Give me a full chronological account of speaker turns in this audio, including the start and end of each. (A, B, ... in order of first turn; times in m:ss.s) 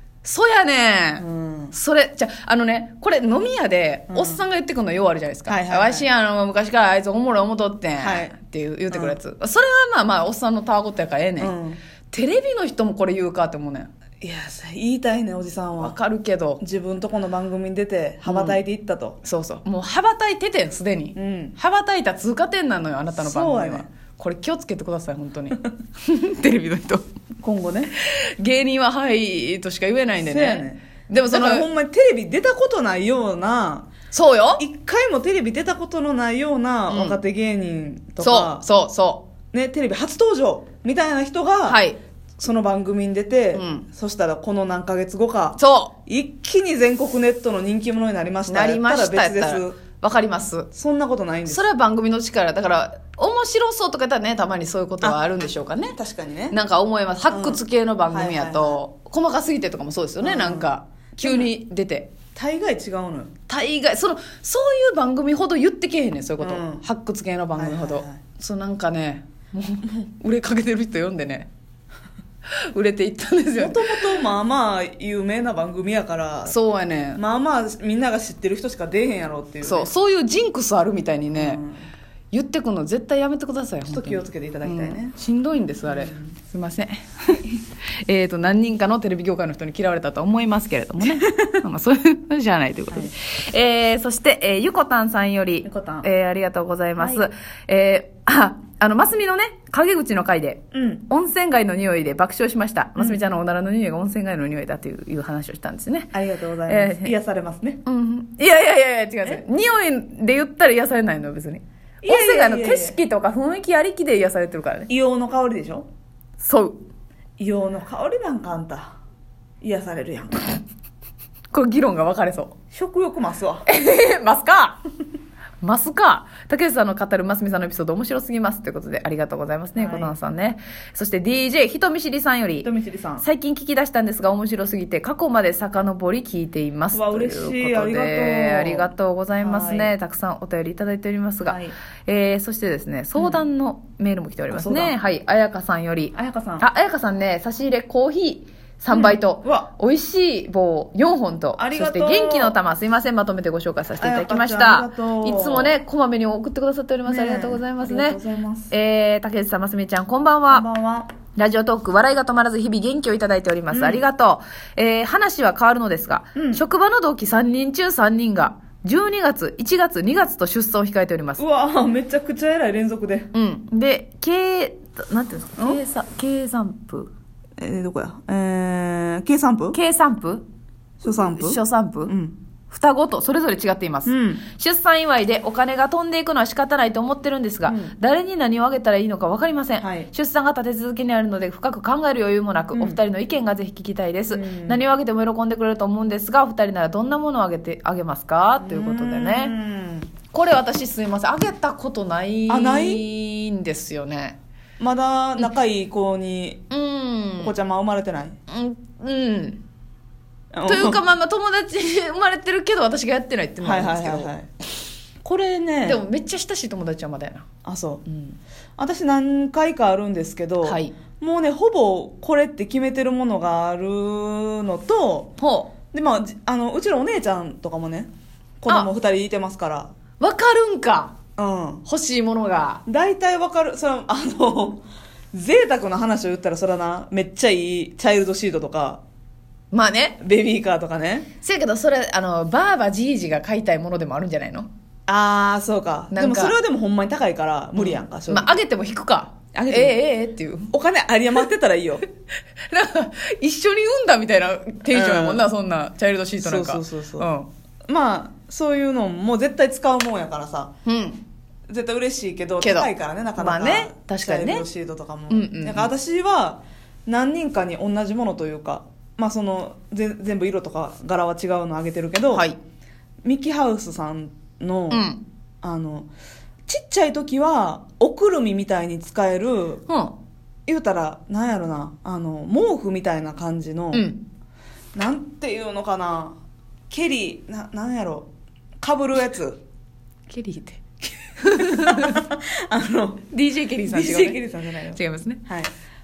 0:00.2-0:11.5 A
0:01.2-0:01.8 B
0:04.1-0:04.4 B
0:05.5-0:06.1 B
0:08.0-0:08.3 B
0:08.9-0:09.2 B
0:11.4-0:11.8 B
0:12.1-0:13.9 A
0:14.2-0:16.0 B
0:15.8-0:16.6 A
0:16.6-0:19.2 B
0:18.2-0:18.6 A
0:19.2-0:27.0 A
0:21.2-0:21.6 B
0:23.2-0:23.9 B
0:27.4-0:27.9 B
0:28.0-0:31.7 A
0:30.2-0:33.9 B
0:34.1-0:34.6 A
0:34.6-0:38.7 B
0:36.9-0:37.2 A
0:38.2-0:39.2 A
0:39.5-0:41.8 B
0:41.7-0:42.0 A
0:42.4-0:49.8 B
0:43.5-0:43.8 A
0:45.6-0:45.9 A
0:48.4-0:50.7 A
0:50.7-0:51.7 B
0:51.4-0:56.0 A
0:55.9-0:56.6 B
0:56.5-1:02.1 A
0:57.2-0:58.8 B
1:00.2-1:01.5 B
1:02.3-1:03.3 B
1:03.5-1:11.5 A
1:06.4-1:06.8 B
1:07.6-1:08.2 B
1:12.5-1:14.1 A
1:13.6-1:16.5 B
1:16.4-1:17.2 A
1:17.2-1:19.9 B
1:19.6-1:21.6 A
1:21.3-1:21.8 B
1:22.3-1:27.5 A
1:23.8-1:25.2 B
1:25.9-1:26.3 B
1:28.1-1:46.2 A
1:35.6-1:36.1 B
1:37.0-1:37.2 B
1:40.7-1:41.0 B
1:46.1-1:47.8 B
1:46.7-1:47.1 A
1:47.8-1:54.9 A
1:52.0-1:53.0 B
1:54.9-1:55.9 B
1:56.4-1:56.8 A
1:57.4-1:58.9 B
1:59.6-2:00.6 B
2:01.5-2:02.6 A
2:02.7-2:03.7 B
2:03.7-2:04.8 A
2:05.6-2:12.7 A
2:09.8-2:10.1 B
2:12.6-2:13.2 B
2:13.2-2:38.2 A
2:16.9-2:19.9 B
2:21.4-2:21.8 B
2:23.1-2:23.4 B
2:24.5-2:25.0 B
2:26.1-2:26.7 B
2:28.9-2:29.7 B
2:31.6-2:32.6 B
2:34.0-2:35.8 B
2:37.0-2:38.7 B
2:38.7-2:40.6 A
2:40.5-2:41.1 B
2:41.3-2:51.4 A
2:43.7-2:44.0 B
2:46.3-2:46.6 B
2:51.4-2:53.3 B
2:53.3-2:57.1 A
2:57.6-2:59.8 B
2:59.7-3:00.4 A
3:01.0-3:02.4 B
3:01.2-3:02.1 A
3:02.7-3:19.5 A
3:04.0-3:04.4 B
3:07.7-3:07.9 B
3:09.8-3:10.1 B
3:12.7-3:13.0 B
3:14.3-3:14.8 B
3:18.6-3:20.1 B
3:20.3-3:24.4 A
3:22.5-3:23.0 B
3:24.8-3:26.6 B
3:26.7-3:27.5 A
3:27.4-3:28.4 B
3:28.5-3:29.6 A
3:30.5-3:31.0 B
3:30.6-3:34.3 A
3:33.6-3:34.5 B
3:35.2-3:36.0 B
3:35.8-3:37.4 A
3:37.6-3:38.0 B
3:38.1-3:38.4 A
3:38.8-3:45.3 B
3:40.6-3:40.9 A
3:45.4-3:45.7 A
3:45.9-3:49.9 B
3:50.2-3:51.2 A
3:51.4-3:51.8 B
3:51.8-3:52.8 A
3:52.9-3:59.0 B
3:59.7-4:00.2 A
4:00.2-4:01.3 B
4:01.4-4:04.7 A
4:05.1-4:08.6 B
4:06.1-4:06.6 A
4:07.8-4:10.7 A
4:09.5-4:10.0 B
4:10.7-4:12.0 B
4:12.7-4:17.5 A
4:14.9-4:15.4 B
4:16.4-4:17.3 B
4:17.9-4:20.7 B
4:20.9-4:21.2 A
4:21.7-4:32.5 B
4:22.6-4:24.7 A
4:25.3-4:25.9 A
4:32.3-4:32.6 A
4:33.2-4:35.1 B
4:34.9-4:35.2 A
4:35.6-4:36.1 B
4:36.7-4:39.8 B
4:39.9-4:40.1 A
4:40.7-4:44.1 B
4:43.9-4:44.2 A
4:44.9-4:46.4 B
4:46.9-4:48.3 B
4:48.8-4:49.6 B
4:50.3-4:52.2 A
4:51.6-4:53.2 B
4:53.3-4:55.4 A
4:53.9-4:55.7 B